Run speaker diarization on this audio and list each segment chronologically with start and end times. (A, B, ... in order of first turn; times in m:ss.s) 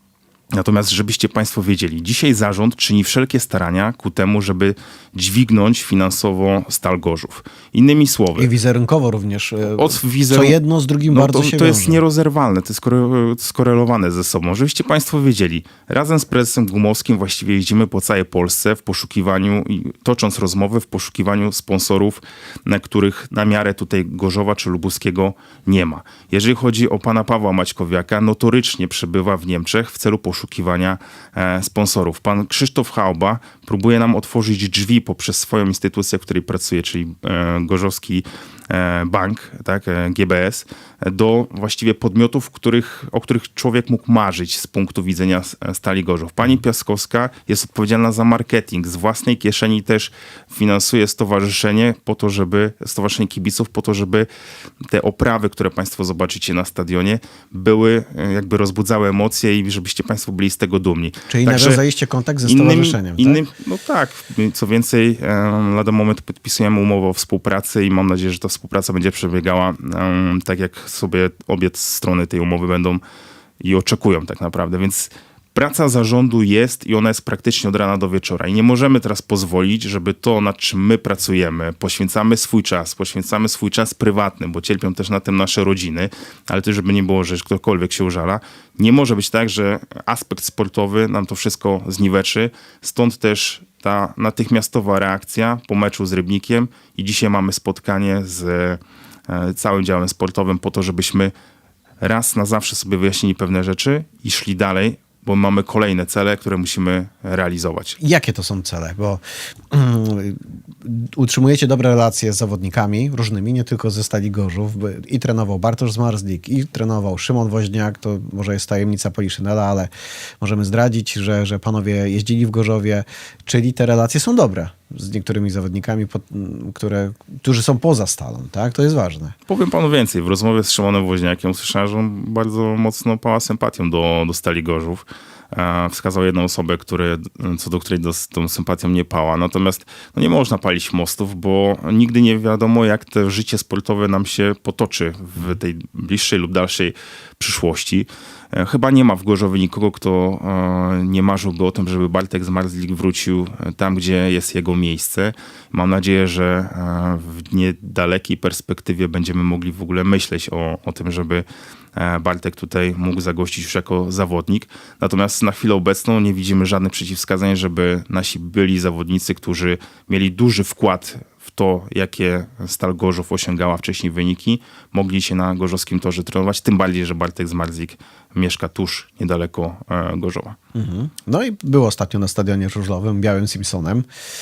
0:00.5-0:08.5 A
0:08.4-0:12.0 B
0:09.8-0:10.6 A
0:11.1-0:54.3 A
0:54.8-1:01.8 A
1:01.3-1:03.4 B
1:02.4-1:13.0 A
1:13.6-1:41.3 A
1:42.0-1:48.0 A
1:48.0-1:59.9 B
2:00.4-2:09.4 B
2:09.5-3:00.6 A
3:00.8-3:04.1 B